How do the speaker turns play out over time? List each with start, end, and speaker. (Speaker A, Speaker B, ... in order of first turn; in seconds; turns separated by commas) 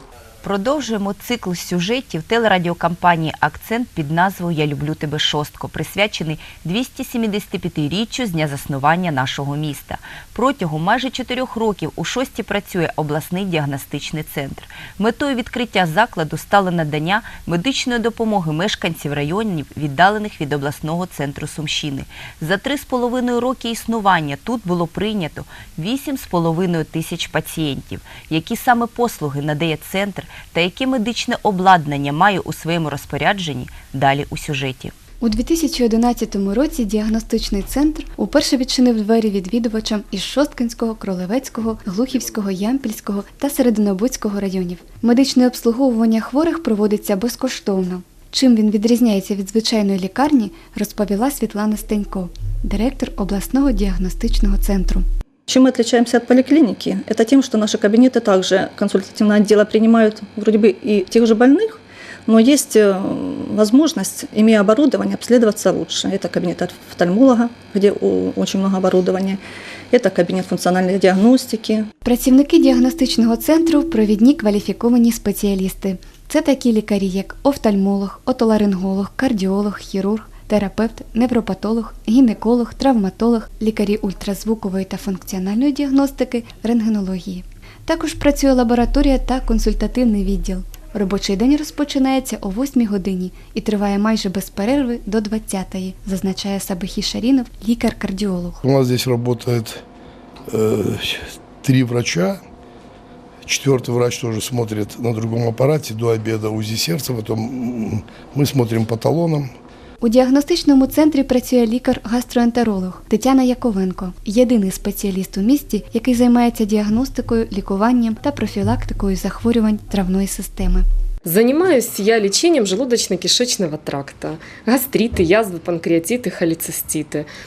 Speaker A: 0.4-34.9, Speaker B: 35.2-55.0, Speaker C: 55.5-69.4, Speaker C: 69.9-71.9, Speaker B: 72.0-98.6, Speaker D: 98.6-99.8, Speaker D: 100.5-102.4, Speaker D: 103.5-109.5, Speaker B: 110.0-120.8, Speaker E: 121.2-127.3